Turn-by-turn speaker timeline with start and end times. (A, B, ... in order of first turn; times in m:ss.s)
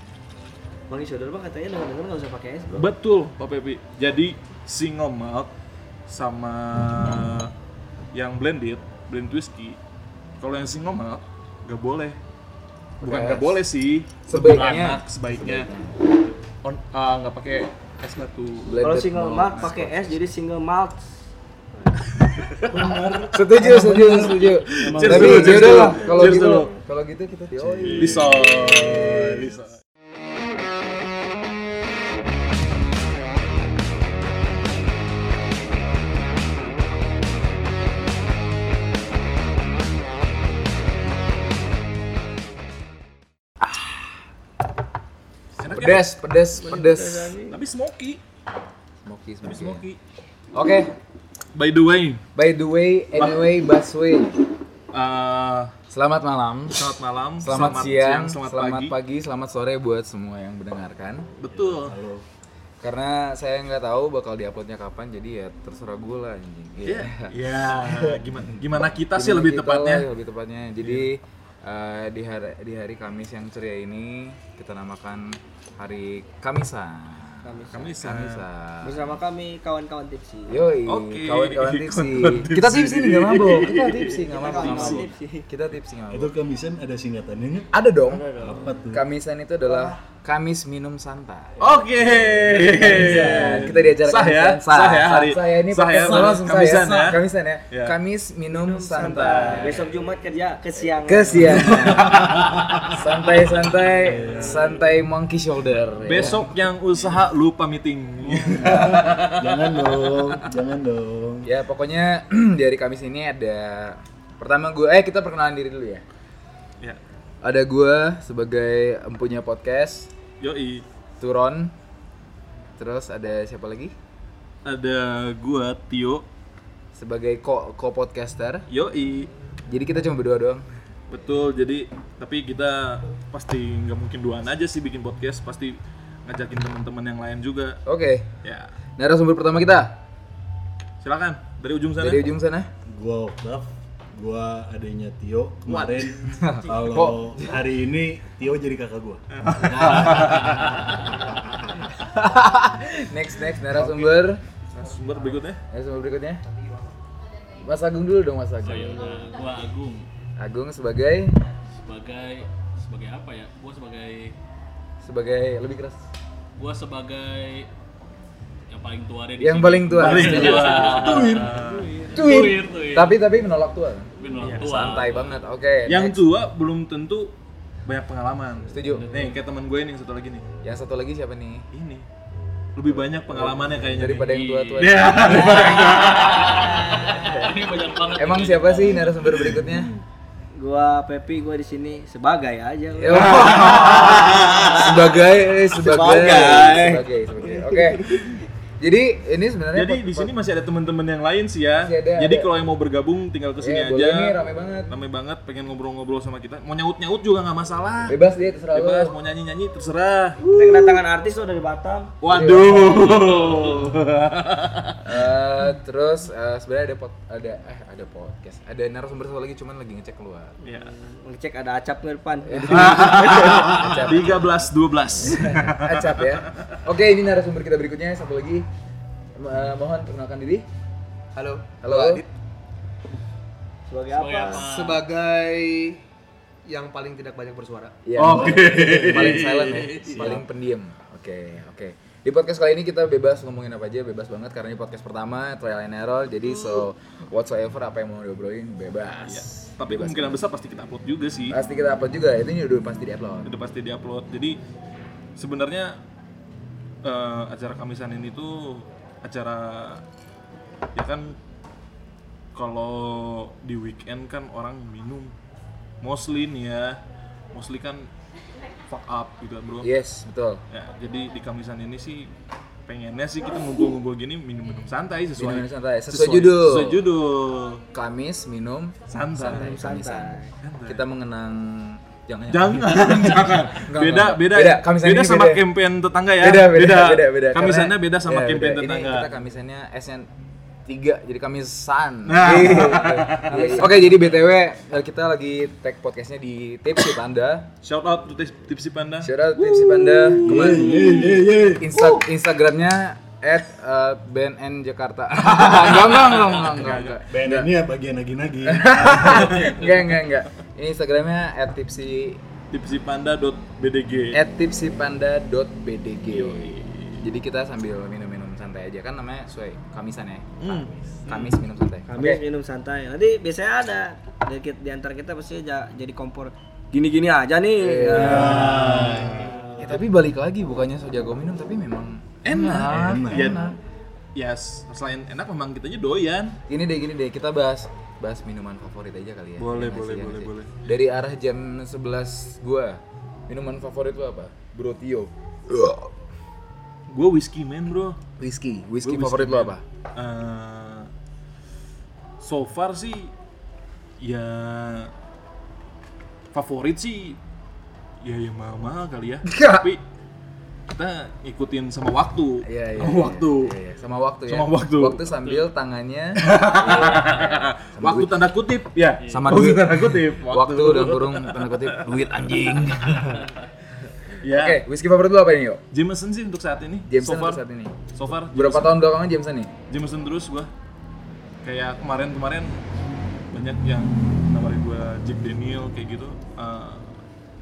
0:00.9-0:02.9 A
0:02.8-0:05.5 B
0:06.1-0:07.5 B
0:08.1-0:09.8 B
0:10.4-0:12.2 B
0:13.0-0:13.6 C
0:13.0-0:15.7 B
0:14.3-0:15.9 C
0:16.6-0:18.7 B
0:18.6-0:20.1 C
0:18.8-0:21.2 A
0:22.2-0:23.3 B
0:22.7-0:26.0 D
0:23.3-0:28.4 C
0:24.2-0:26.7 B
0:25.0-0:25.9 A
0:27.6-0:29.7 D
0:27.9-0:29.7 B
0:45.6-0:46.1 B
0:45.6-0:47.4 C
0:46.6-0:47.6 A
0:47.5-0:48.2 B
0:49.0-0:49.8 C
0:49.4-0:50.0 B
0:50.5-0:51.0 C
0:51.5-0:52.2 B
0:52.4-0:54.4 C
0:53.2-0:53.4 B
0:54.9-0:55.7 B
0:55.9-0:56.9 C
0:56.7-0:59.0 B
0:57.4-1:01.3 C
1:01.4-1:02.0 B
1:01.5-1:02.3 D
1:02.8-1:07.3 C
1:06.8-1:10.1 B
1:09.1-1:19.2 C
1:10.8-1:11.1 B
1:17.4-1:17.8 A
1:17.7-1:18.5 B
1:18.8-1:20.6 A
1:20.5-1:26.3 C
1:20.9-1:25.1 B
1:24.0-1:25.5 A
1:26.1-1:29.0 D
1:27.7-1:39.8 C
1:31.6-1:38.0 B
1:33.0-1:33.8 D
1:38.5-1:41.8 A
1:39.4-1:39.9 B
1:41.0-1:46.5 C
1:41.5-1:42.8 B
1:44.0-1:44.8 D
1:44.1-1:44.4 B
1:46.0-1:49.4 B
1:48.3-1:51.5 D
1:51.4-1:56.0 C
1:57.4-2:00.1 C
2:00.4-2:00.8 B
2:01.2-2:01.7 C
2:02.8-2:03.9 C
2:04.6-2:06.3 B
2:07.0-2:08.7 C
2:08.7-2:09.3 B
2:09.7-2:10.7 C
2:11.1-2:17.8 B
2:17.9-2:18.3 C
2:18.4-2:18.7 B
2:19.0-2:20.0 C
2:21.0-2:22.3 B
2:22.0-2:22.7 C
2:22.9-2:30.5 D
2:25.7-2:26.2 B
2:26.3-2:27.5 C
2:29.3-2:30.8 B
2:30.2-2:30.9 E
2:32.0-2:34.4 C
2:33.8-2:34.0 B
2:34.8-2:35.6 B
2:35.7-2:36.4 C
2:37.6-2:39.1 C
2:38.6-2:40.0 E
2:40.4-2:41.4 C
2:41.8-2:44.4 E
2:45.0-2:46.1 C
2:46.6-2:47.7 E
2:48.7-2:53.2 E
2:49.4-2:51.1 C
2:50.0-2:51.9 B
2:50.9-2:51.5 D
2:52.1-2:56.2 C
2:54.2-2:55.4 E
2:54.4-2:55.0 B
2:55.9-2:57.4 B
2:57.9-3:00.4 B
2:58.7-2:59.2 C
2:58.9-2:59.4 E
3:00.6-3:01.7 C
3:01.7-3:02.1 B
3:02.8-3:06.8 B
3:03.4-3:05.8 C
3:04.1-3:09.4 E
3:07.2-3:07.6 C
3:08.1-3:09.9 C
3:10.5-3:15.0 A
3:13.0-3:20.3 C
3:13.1-3:14.8 B
3:15.7-3:18.4 A
3:19.7-3:28.2 B
3:21.8-3:22.5 C
3:23.6-3:24.9 C
3:28.1-3:29.2 C
3:28.7-3:30.4 B
3:30.4-3:31.0 C
3:30.5-3:32.2 A
3:32.2-3:35.1 B
3:32.3-3:33.3 C
3:35.0-3:40.6 C
3:40.6-3:43.9 A
3:40.6-3:40.9 B
3:42.5-3:44.5 C
3:42.7-3:46.4 B
3:45.2-3:48.7 C
3:49.4-3:50.7 C
3:51.4-3:51.9 F
3:51.8-3:52.2 C
3:53.9-3:54.7 A
3:54.1-3:55.0 E
3:54.6-3:56.0 F
3:56.6-3:58.0 F
3:58.1-4:10.4 C
3:58.2-4:00.4 B
4:09.3-4:11.6 B
4:11.5-4:13.6 C
4:13.4-4:14.6 B
4:15.4-4:16.0 B
4:17.0-4:20.0 B
4:21.0-4:21.4 B
4:22.5-4:25.4 B
4:26.0-4:27.0 B
4:27.5-4:28.1 B
4:28.9-4:29.9 B
4:29.8-4:30.6 C
4:30.7-4:32.3 B
4:32.9-4:37.8 B
4:35.4-4:37.0 C
4:37.9-4:45.6 C
4:39.1-4:39.8 B
4:39.4-4:40.5 A
4:40.6-4:41.1 B
4:42.5-4:49.3 B
4:46.4-4:50.3 C
4:50.9-4:57.7 C
4:52.3-4:53.9 B
4:53.5-4:54.1 A
4:57.8-5:01.5 B
4:59.2-5:07.7 C
5:00.4-5:02.0 D
5:05.6-5:07.2 B
5:07.3-5:09.7 D
5:08.7-5:12.4 C
5:09.3-5:09.8 B
5:12.7-5:14.4 B
5:14.3-5:22.4 C
5:16.3-5:17.3 B
5:20.6-5:21.6 B
5:22.1-5:29.6 A
5:27.8-5:29.1 C
5:28.2-5:29.5 D
5:28.5-5:29.4 B
5:29.8-5:33.8 C
5:32.4-5:33.7 B
5:32.7-5:33.7 D
5:34.4-5:36.6 B
5:36.7-5:46.1 C
5:39.6-5:40.8 B
5:47.1-5:48.2 B
5:48.4-5:49.8 C
5:49.0-5:51.1 B
5:52.4-5:53.3 B
5:54.2-5:55.1 B
5:56.5-5:57.4 B
5:58.2-6:00.0 B
5:59.4-5:59.9 C
6:00.9-6:03.8 B
6:02.6-6:08.4 C
6:04.5-6:05.7 B
6:06.4-6:12.0 B
6:09.3-6:13.5 C
6:14.4-6:14.8 B
6:14.5-6:15.8 C
6:15.9-6:17.6 B
6:17.1-6:18.0 C
6:18.2-6:19.1 B
6:18.5-6:19.7 C
6:19.9-6:20.7 B
6:21.6-6:22.8 B
6:23.5-6:27.2 B